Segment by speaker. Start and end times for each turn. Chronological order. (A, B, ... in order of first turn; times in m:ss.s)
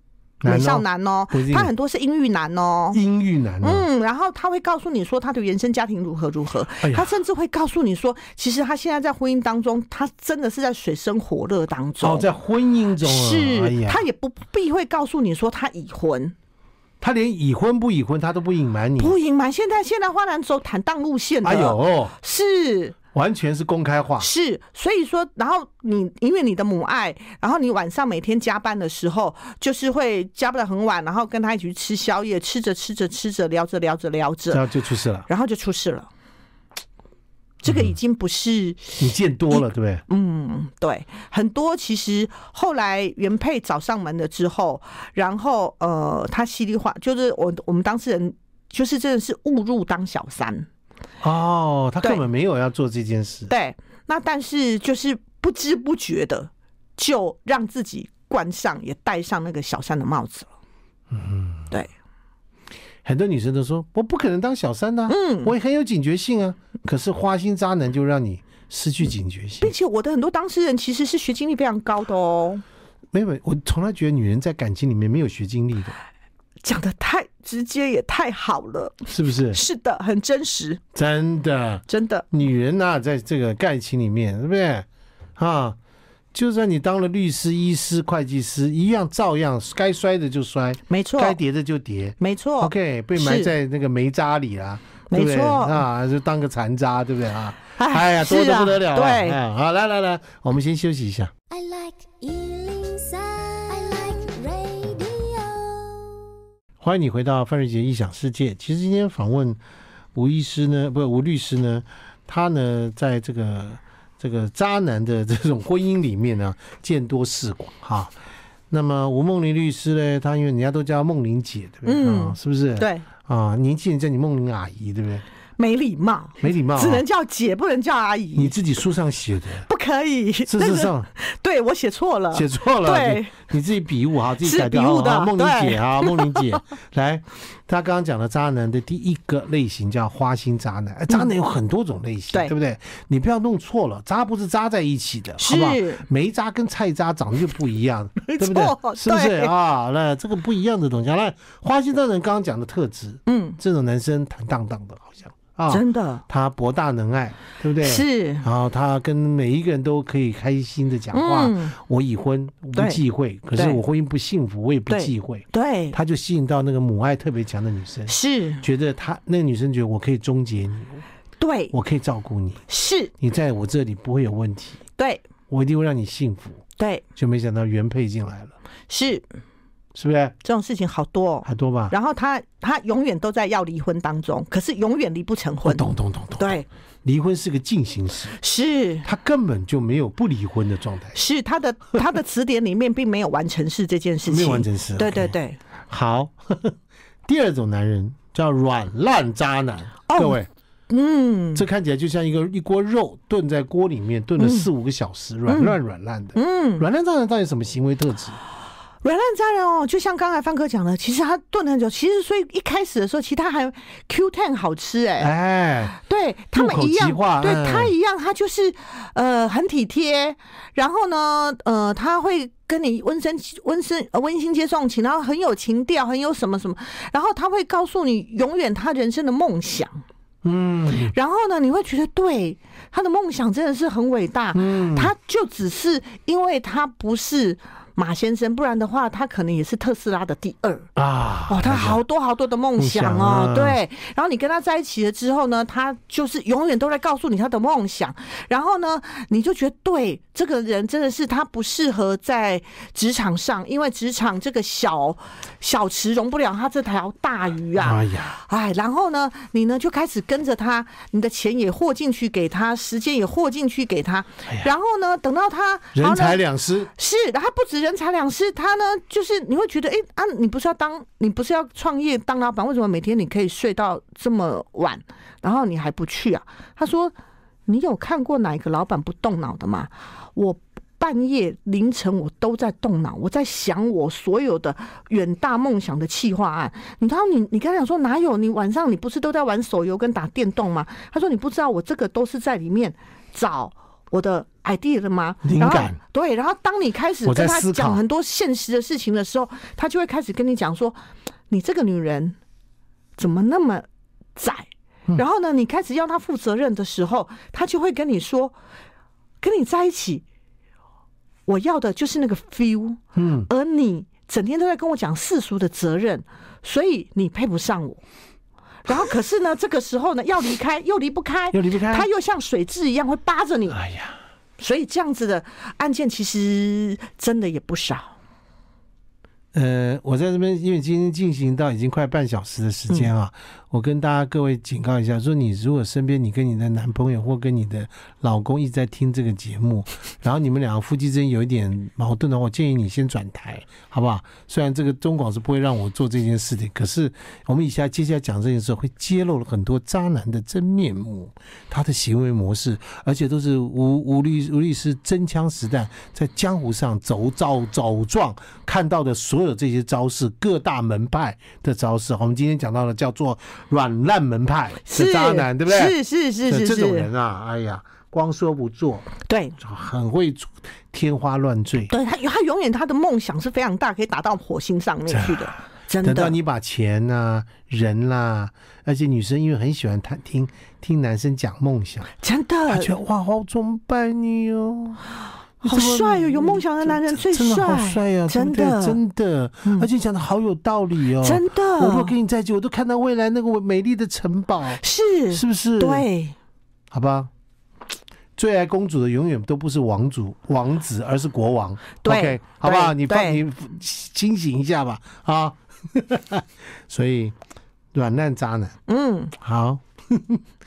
0:00.4-0:01.7 A
0:00.4-0:03.0 B
0:02.9-0:03.8 A
0:03.6-0:12.3 B
0:06.8-0:07.1 A
0:12.0-0:14.0 A
0:13.0-0:16.3 B
0:17.0-0:19.1 A
0:19.0-0:23.0 B
0:21.4-0:22.1 A
0:23.1-0:24.3 A
0:24.2-0:34.6 B
0:34.5-0:35.3 A
0:35.3-0:36.1 B
0:37.6-0:37.9 A
0:37.6-0:39.0 B
0:39.0-0:40.0 A
0:39.6-0:50.7 B
0:51.2-0:53.5 A
0:53.5-1:00.5 B
1:01.1-1:01.7 A
1:03.0-1:09.7 A
1:05.1-1:05.5 B
1:09.6-1:12.6 B
1:13.1-1:15.9 A
1:16.6-1:20.8 B
1:19.1-1:19.6 A
1:20.9-1:25.8 A
1:21.9-1:22.2 B
1:26.3-1:41.3 A
1:30.9-1:31.4 B
1:32.2-1:33.5 B
1:35.1-1:35.8 B
1:37.8-1:39.4 B
1:41.5-1:46.1 C
1:46.8-1:49.6 A
1:50.1-1:58.1 A
1:58.7-2:05.2 A
2:01.8-2:03.0 B
2:05.6-2:08.5 B
2:06.4-2:07.0 A
2:08.3-2:09.7 A
2:09.7-2:13.4 B
2:10.4-2:11.1 A
2:12.3-2:51.0 A
2:14.4-2:16.6 B
2:25.4-2:26.0 B
2:28.3-2:29.5 B
2:33.2-2:33.6 B
2:35.7-2:36.2 B
2:37.8-2:38.4 B
2:41.1-2:41.7 B
2:43.5-2:43.8 B
2:44.9-2:46.0 B
2:48.1-2:48.6 B
2:51.4-2:51.7 B
2:51.7-2:52.6 A
2:52.7-2:53.1 B
2:53.2-2:54.8 A
2:55.0-2:55.2 B
2:55.5-2:56.6 A
2:56.8-2:57.0 B
2:57.2-2:58.5 A
2:58.9-2:59.2 B
2:59.9-3:00.3 A
3:00.4-3:05.8 B
3:01.4-3:01.9 A
3:05.6-3:08.4 A
3:06.4-3:06.7 B
3:08.3-3:09.0 B
3:09.0-3:11.2 A
3:11.1-3:15.6 B
3:14.2-3:15.3 A
3:15.9-3:20.5 A
3:20.1-3:20.4 B
3:20.9-3:21.6 B
3:21.5-3:28.4 A
3:24.4-3:24.7 B
3:25.5-3:25.8 B
3:26.3-3:26.8 B
3:29.0-3:35.3 B
3:35.2-3:36.0 A
3:35.9-3:50.0 B
3:36.5-3:37.9 A
3:50.4-3:51.1 A
3:51.1-4:00.9 B
3:54.5-3:55.1 A
4:01.0-4:02.0 A
4:01.5-4:26.4 B
4:02.8-4:03.8 A
4:17.8-4:18.4 A
4:25.9-4:26.9 A
4:27.0-4:37.1 B
4:37.7-5:01.0 B
4:55.4-4:56.0 A
4:57.2-4:58.0 A
5:01.5-5:02.4 B
5:03.2-5:08.5 B
5:09.4-5:10.2 B
5:11.5-5:18.0 B
5:13.2-5:13.5 A
5:18.8-5:23.8 B
5:21.5-5:22.1 A
5:23.7-5:24.2 A
5:24.6-5:28.1 B
5:29.5-6:05.9 A
6:04.9-6:07.1 B
6:06.5-6:11.9 A
6:09.2-6:09.6 B
6:11.9-6:16.4 B
6:15.1-6:22.1 A
6:22.2-6:22.9 B
6:22.7-6:25.0 A
6:25.6-6:36.0 A
6:25.6-6:29.0 B
6:31.2-6:32.1 B
6:34.8-6:36.3 B
6:36.9-6:37.3 A
6:38.4-6:47.4 A
6:42.0-6:43.4 B
6:47.9-6:48.8 A
6:48.9-6:49.3 B
6:49.4-6:50.4 A